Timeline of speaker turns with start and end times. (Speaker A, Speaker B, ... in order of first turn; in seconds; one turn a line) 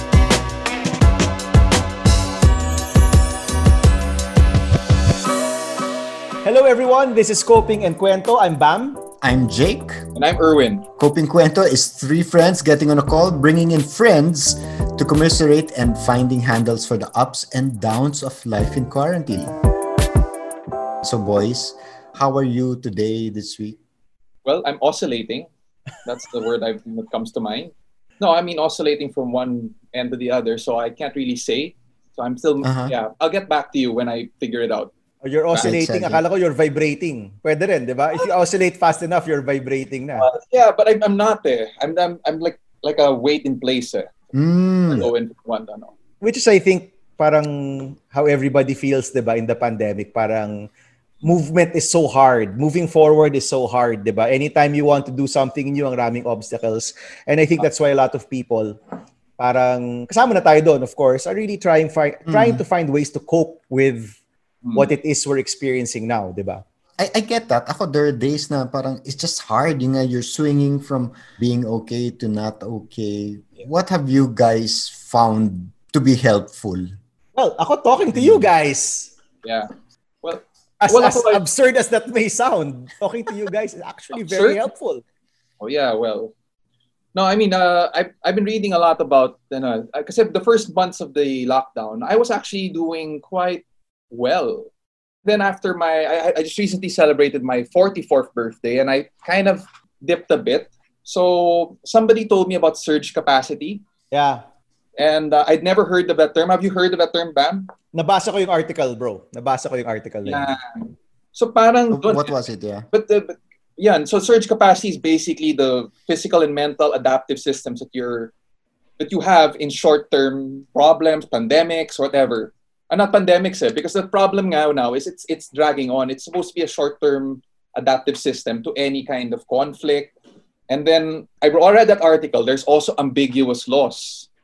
Speaker A: 6.4-9.0
Speaker B: 9.2-10.0
Speaker C: 10.1-10.8
Speaker B: 11.0-19.5
Speaker B: 21.0-23.8
Speaker C: 24.4-25.5
Speaker C: 26.0-34.9
Speaker B: 32.6-32.9
Speaker A: 35.2-40.2
Speaker B: 35.6-36.2
Speaker C: 40.2-44.1
Speaker B: 44.3-45.1
Speaker C: 44.8-45.9
Speaker A: 46.2-50.7
Speaker A: 51.2-58.8
Speaker A: 59.4-64.2
Speaker B: 62.3-62.6
Speaker C: 64.6-64.9
Speaker A: 64.7-66.6
Speaker B: 67.0-76.9
Speaker A: 77.3-79.1
Speaker B: 78.1-78.5
Speaker C: 79.4-79.7
Speaker C: 80.2-81.4
Speaker A: 80.8-85.0
Speaker C: 84.1-84.6
Speaker C: 85.6-86.3
Speaker C: 87.1-94.7
Speaker C: 95.2-103.8
Speaker A: 104.1-104.4
Speaker C: 105.0-107.7
Speaker A: 107.9-110.5
Speaker C: 110.2-112.3
Speaker B: 111.9-112.9
Speaker C: 112.9-118.3
Speaker C: 119.0-130.1
Speaker C: 130.7-134.3